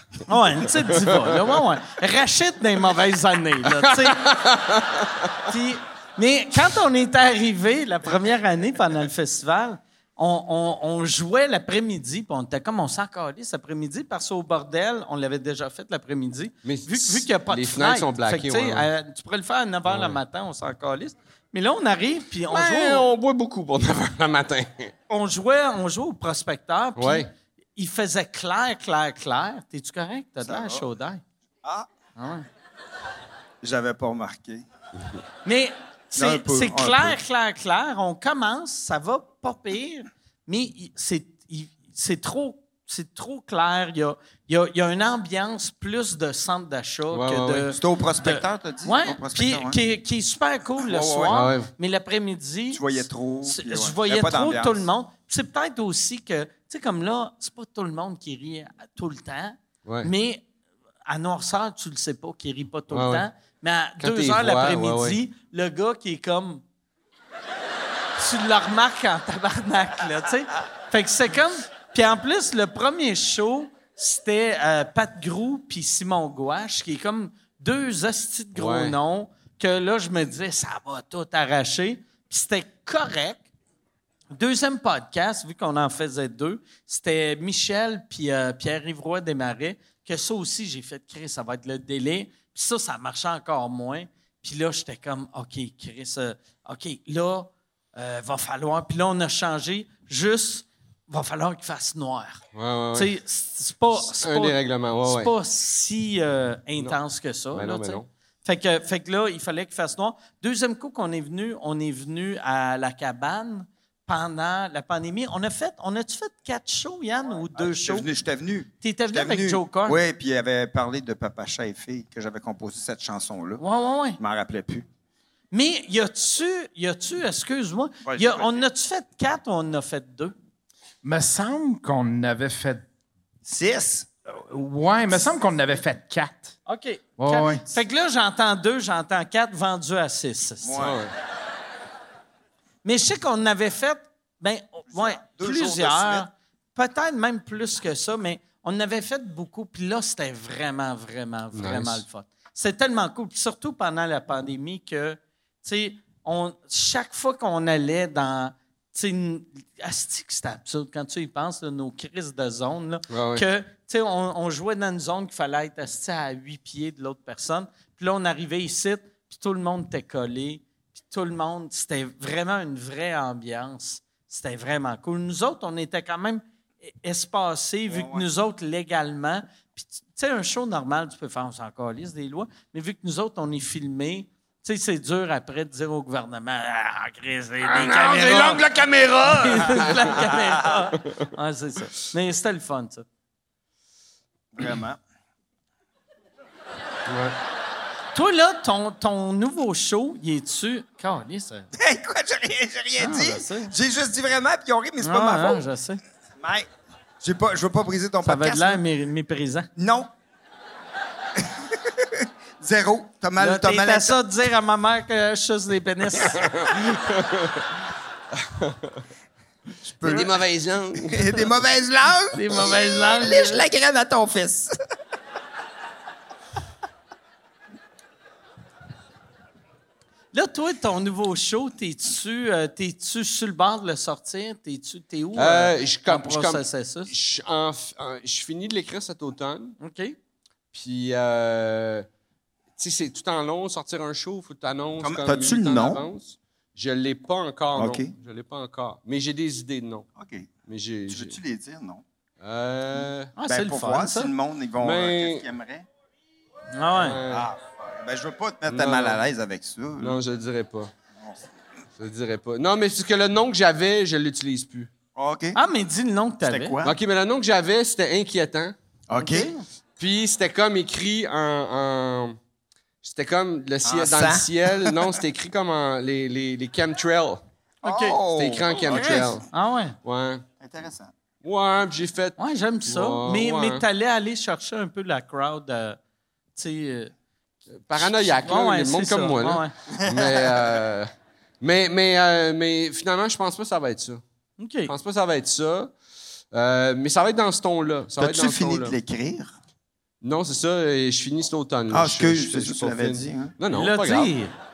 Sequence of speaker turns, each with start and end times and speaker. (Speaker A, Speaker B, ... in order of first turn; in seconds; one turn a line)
Speaker A: 0.3-4.3
Speaker B: 3.9-5.4
Speaker A: 5.5-23.1
Speaker B: 16.6-18.9
Speaker B: 19.9-20.2
Speaker B: 22.5-24.9
Speaker A: 25.1-31.2
Speaker B: 27.0-27.3
Speaker C: 30.4-30.9
Speaker C: 31.6-31.9
Speaker A: 32.2-32.5
Speaker C: 33.6-34.6
Speaker A: 35.5-60.5
Speaker C: 36.2-37.2
Speaker B: 47.1-47.7
Speaker C: 47.8-49.8
Speaker C: 50.8-51.4
Speaker B: 51.3-51.7
Speaker C: 52.7-54.8
Speaker B: 59.9-60.1
Speaker A: 61.1-66.6
Speaker B: 62.9-63.3
Speaker B: 64.0-65.2
Speaker A: 68.2-83.5
Speaker B: 78.5-79.0
Speaker A: 84.3-102.4
Speaker B: 102.5-103.1
Speaker A: 103.0-118.1
Speaker B: 104.0-105.3
Speaker B: 107.5-108.1
Speaker C: 117.5-123.6
Speaker A: 118.8-120.0
Speaker A: 123.6-124.2
Speaker C: 124.2-124.9
Speaker A: 125.5-130.3
Speaker C: 128.0-128.7
Speaker D: 131.0-132.8
Speaker C: 133.4-134.1
Speaker D: 134.4-136.6
Speaker A: 136.7-140.8
Speaker D: 137.2-137.7
Speaker C: 140.6-141.0
Speaker B: 140.8-141.1
Speaker A: 142.8-188.6
Speaker C: 144.9-146.3
Speaker B: 151.5-152.0
Speaker B: 163.1-163.4
Speaker C: 177.9-178.2
Speaker B: 187.6-190.2
Speaker A: 189.2-193.1
Speaker C: 194.5-195.0
Speaker B: 197.1-197.3
Speaker A: 198.1-201.7
Speaker C: 201.7-205.7
Speaker A: 203.0-203.7
Speaker A: 205.0-206.0
Speaker C: 206.4-206.7
Speaker C: 207.2-208.8
Speaker A: 208.2-209.7
Speaker C: 209.8-210.1
Speaker C: 211.3-214.2
Speaker A: 213.4-216.4
Speaker B: 216.3-217.7
Speaker B: 218.4-219.0
Speaker C: 219.9-220.3
Speaker B: 220.0-221.5
Speaker C: 220.9-224.8
Speaker A: 222.3-223.7
Speaker A: 230.3-237.1
Speaker B: 235.4-239.8
Speaker A: 239.8-240.2
Speaker B: 240.7-242.1
Speaker B: 242.8-250.1
Speaker C: 245.0-246.0
Speaker C: 247.8-248.1
Speaker C: 250.2-250.5
Speaker B: 250.7-251.4
Speaker C: 251.1-252.0
Speaker B: 252.4-253.3
Speaker A: 253.4-254.3
Speaker C: 253.4-255.9
Speaker B: 254.8-255.5
Speaker A: 256.8-257.2
Speaker B: 256.9-257.5
Speaker C: 257.3-260.2
Speaker B: 258.7-259.2
Speaker B: 260.0-260.9
Speaker B: 262.0-264.9
Speaker C: 265.1-265.6
Speaker A: 265.6-266.8
Speaker C: 266.4-267.0
Speaker B: 266.8-268.8
Speaker C: 269.1-269.5
Speaker A: 269.2-269.6
Speaker B: 270.0-272.4
Speaker B: 273.0-277.4
Speaker C: 273.9-275.2
Speaker A: 277.8-278.2
Speaker C: 277.8-279.4
Speaker B: 278.4-279.5
Speaker A: 278.9-280.0
Speaker B: 280.0-280.4
Speaker C: 280.6-281.1
Speaker B: 281.4-283.8
Speaker A: 282.4-286.0
Speaker A: 286.6-287.1
Speaker B: 287.8-291.1
Speaker A: 288.0-289.7
Speaker C: 289.9-290.8
Speaker B: 291.6-294.2
Speaker A: 294.6-294.9
Speaker B: 294.9-295.9
Speaker B: 296.5-298.9
Speaker C: 298.2-299.5
Speaker B: 300.2-304.3
Speaker C: 301.9-303.5
Speaker A: 303.7-304.5